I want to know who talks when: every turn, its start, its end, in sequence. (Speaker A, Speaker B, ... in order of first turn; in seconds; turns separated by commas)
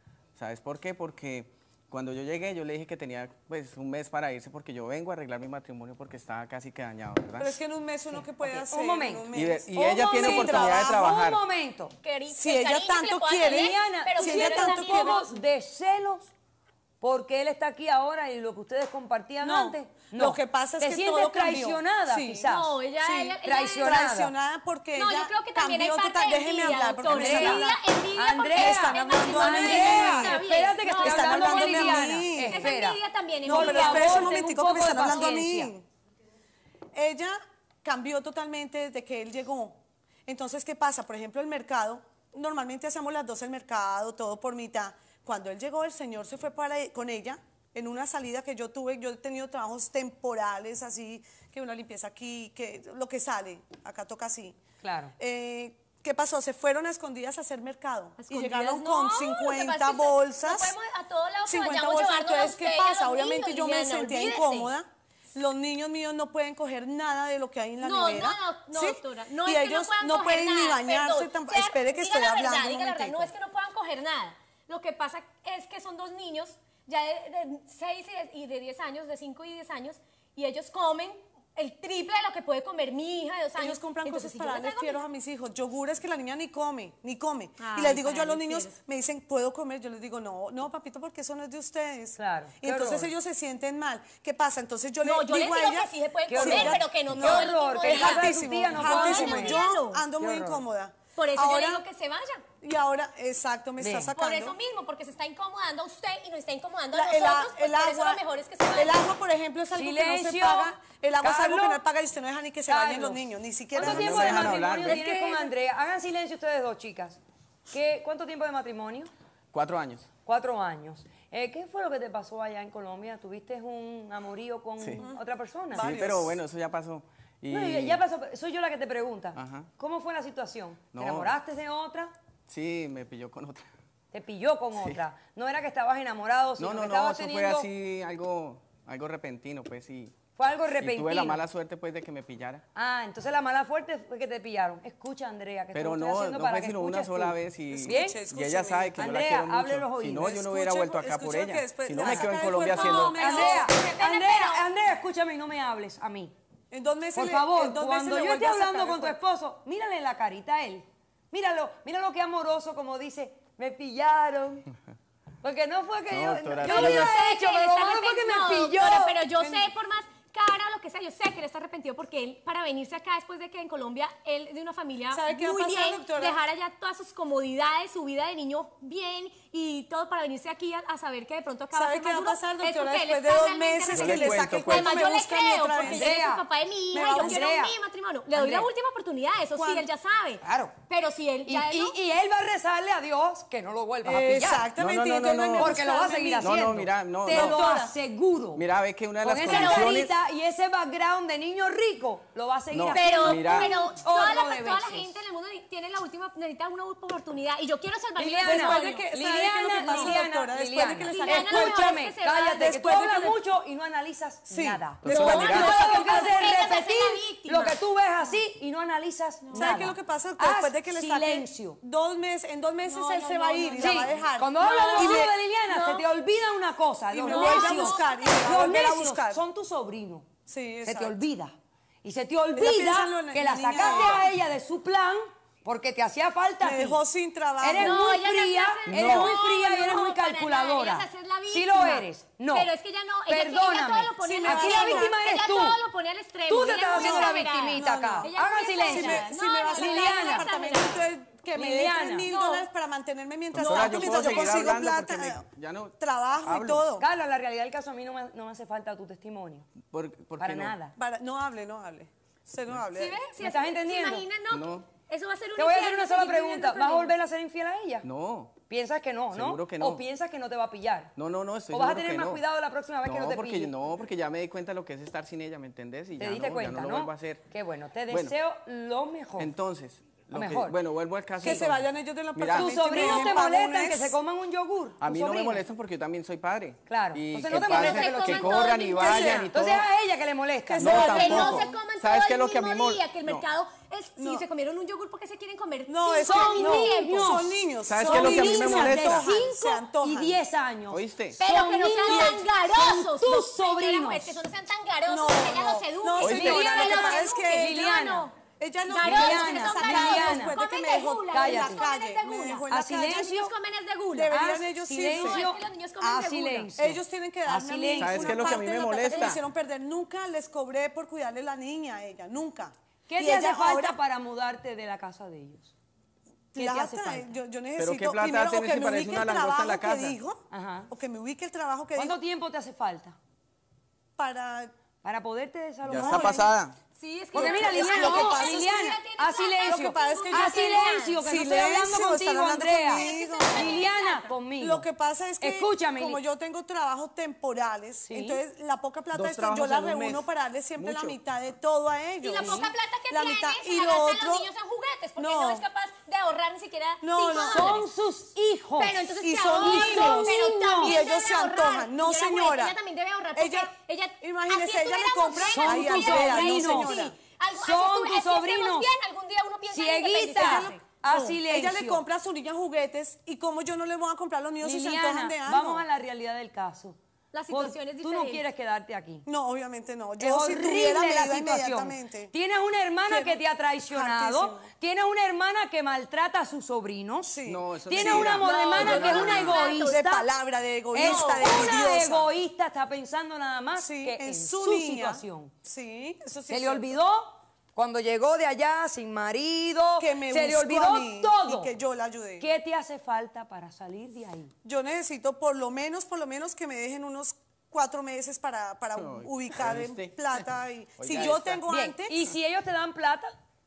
Speaker A: 0.4-7.6, Speaker B: 7.4-11.0, Speaker C: 8.1-11.9, Speaker A: 9.3-11.4, Speaker D: 12.0-15.4, Speaker B: 12.3-15.2, Speaker C: 13.4-16.3, Speaker C: 17.0-22.8, Speaker B: 19.4-22.5, Speaker D: 22.4-24.1, Speaker B: 23.0-27.8, Speaker C: 23.4-24.3, Speaker D: 24.9-35.1, Speaker C: 27.0-35.7, Speaker B: 28.5-32.7, Speaker B: 33.4-35.9, Speaker B: 36.9-54.6, Speaker C: 54.8-55.1, Speaker B: 55.2-60.7, Speaker D: 58.2-64.7, Speaker B: 61.5-73.3, Speaker D: 67.8-85.0, Speaker B: 83.6-101.8, Speaker D: 87.6-88.8, Speaker C: 92.2-93.1, Speaker D: 95.0-100.1, Speaker C: 96.3-99.7, Speaker C: 100.2-100.6, Speaker D: 101.2-102.5, Speaker B: 102.6-104.5, Speaker C: 103.8-104.1, Speaker D: 104.1-109.0, Speaker B: 106.9-108.2, Speaker B: 108.8-114.6, Speaker C: 109.7-111.8, Speaker C: 112.7-113.2, Speaker C: 113.8-117.2, Speaker A: 113.8-115.1, Speaker D: 114.6-115.5, Speaker C: 117.7-119.1, Speaker A: 119.5-120.1, Speaker C: 120.3-125.9, Speaker A: 125.7-128.0, Speaker B: 125.8-126.4, Speaker C: 127.5-132.1, Speaker A: 129.3-129.7, Speaker A: 130.9-131.3, Speaker A: 132.5-133.7, Speaker C: 134.1-137.7, Speaker A: 134.8-135.0, Speaker A: 136.6-140.2, Speaker C: 140.4-141.4, Speaker A: 140.8-142.6, Speaker C: 142.8-148.2, Speaker A: 145.7-153.5, Speaker B: 147.7-149.0, Speaker C: 149.0-150.4, Speaker B: 150.2-153.7, Speaker C: 152.0-156.3, Speaker D: 152.6-154.7, Speaker B: 156.7-159.2, Speaker C: 157.2-164.7, Speaker C: 165.4-169.2, Speaker A: 166.1-167.2, Speaker D: 166.6-192.0, Speaker B: 175.1-176.4, Speaker B: 181.7-186.2, Speaker A: 183.9-185.2, Speaker C: 185.9-186.4, Speaker B: 186.9-187.6, Speaker C: 187.0-187.8, Speaker C: 188.3-188.7, Speaker B: 189.6-189.9, Speaker C: 190.4-190.7, Speaker C: 191.5-194.7, Speaker B: 194.0-196.6, Speaker A: 194.8-197.8, Speaker C: 195.6-198.6, Speaker B: 197.3-197.9, Speaker A: 198.6-200.2, Speaker C: 199.2-205.2, Speaker D: 199.4-199.9, Speaker A: 202.7-203.8, Speaker D: 202.9-209.1, Speaker C: 208.2-221.8, Speaker B: 208.4-211.9, Speaker D: 209.8-210.2, Speaker D: 211.1-213.3, Speaker B: 212.5-213.3, Speaker B: 214.5-216.5, Speaker A: 215.0-215.8, Speaker D: 215.2-218.4, Speaker D: 219.4-219.9, Speaker B: 219.5-225.3, Speaker D: 222.8-226.1, Speaker C: 223.8-230.3, Speaker B: 227.1-229.4, Speaker D: 227.2-228.9, Speaker B: 230.5-231.2, Speaker C: 230.8-237.0, Speaker B: 232.5-234.3, Speaker D: 233.8-234.1, Speaker B: 236.6-238.1, Speaker C: 237.6-242.7, Speaker D: 237.7-251.1, Speaker A: 239.0-239.2, Speaker C: 243.3-245.8, Speaker B: 244.2-245.2, Speaker C: 246.5-250.5, Speaker B: 246.9-255.4, Speaker C: 251.6-252.3, Speaker D: 252.3-252.7, Speaker A: 253.5-256.9, Speaker C: 253.6-254.4, Speaker D: 253.8-254.4, Speaker B: 256.0-257.1, Speaker C: 257.0-259.7, Speaker A: 259.8-260.8, Speaker C: 260.4-260.9, Speaker B: 261.0-263.2, Speaker D: 262.9-267.1, Speaker C: 263.4-264.3, Speaker A: 264.5-264.9, Speaker C: 265.6-268.1, Speaker A: 268.0-268.6, Speaker C: 268.7-271.1, Speaker A: 269.3-270.0, Speaker A: 271.2-272.4, Speaker C: 271.7-273.7, Speaker A: 273.0-277.4, Speaker C: 276.2-279.5, Speaker A: 278.1-278.4, Speaker A: 279.4-283.3, Speaker C: 280.3-280.7, Speaker B: 281.4-284.2, Speaker C: 282.6-285.6, Speaker A: 285.0-289.9, Speaker C: 286.9-291.7, Speaker D: 287.5-289.4, Speaker B: 289.0-289.4, Speaker B: 290.7-291.8, Speaker A: 290.8-293.5, Speaker D: 290.9-297.6, Speaker B: 294.2-294.4, Speaker B: 295.9-300.4, Speaker C: 296.2-304.4, Speaker A: 297.9-299.4, Speaker D: 298.3-298.6, Speaker A: 300.9-301.4, Speaker D: 301.4-314.4, Speaker B: 302.1-302.4, Speaker B: 305.1-307.9, Speaker C: 306.2-308.3, Speaker A: 306.2-306.6, Speaker B: 308.4-313.3, Speaker C: 309.0-310.6, Speaker C: 311.3-311.9, Speaker C: 312.7-313.5, Speaker B: 314.1-315.5, Speaker C: 314.3-318.6, Speaker D: 315.1-316.7, Speaker B: 316.8-322.7, Speaker A: 318.0-319.4, Speaker D: 318.4-319.4, Speaker C: 323.1-325.7, Speaker D: 323.2-324.0, Speaker B: 323.2-323.6, Speaker B: 326.5-332.2, Speaker C: 326.6-327.4, Speaker A: 327.8-330.2, Speaker C: 330.5-330.9, Speaker C: 332.0-333.2, Speaker B: 334.2-334.7, Speaker C: 335.0-336.5, Speaker A: 335.9-336.8, Speaker B: 336.0-336.4, Speaker D: 337.0-341.2, Speaker B: 337.3-339.0, Speaker C: 337.3-344.9, Speaker B: 339.6-343.8, Speaker D: 342.9-344.4, Speaker B: 344.6-354.5, Speaker C: 345.4-346.2, Speaker C: 348.1-348.4, Speaker A: 349.1-351.2, Speaker D: 352.2-357.9, Speaker C: 352.4-352.7, Speaker B: 355.2-355.6, Speaker B: 357.0-357.8, Speaker C: 357.4-359.0, Speaker D: 358.8-371.0, Speaker B: 359.2-362.8, Speaker C: 359.5-361.0, Speaker B: 363.4-367.2, Speaker C: 365.4-368.9, Speaker C: 369.7-372.0, Speaker B: 370.4-375.9, Speaker C: 374.6-377.0, Speaker D: 377.3-378.5, Speaker C: 377.5-379.3, Speaker B: 379.3-382.3, Speaker C: 380.2-387.4, Speaker B: 383.1-384.7, Speaker B: 387.2-387.6, Speaker A: 387.5-389.6, Speaker C: 387.9-390.3, Speaker D: 387.9-390.2, Speaker B: 388.5-392.3, Speaker C: 390.9-395.5, Speaker D: 390.9-391.8, Speaker B: 393.8-396.9, Speaker C: 396.5-401.7, Speaker B: 400.0-402.5, Speaker C: 402.4-404.5, Speaker B: 404.6-412.2, Speaker A: 409.0-411.7, Speaker C: 411.7-413.3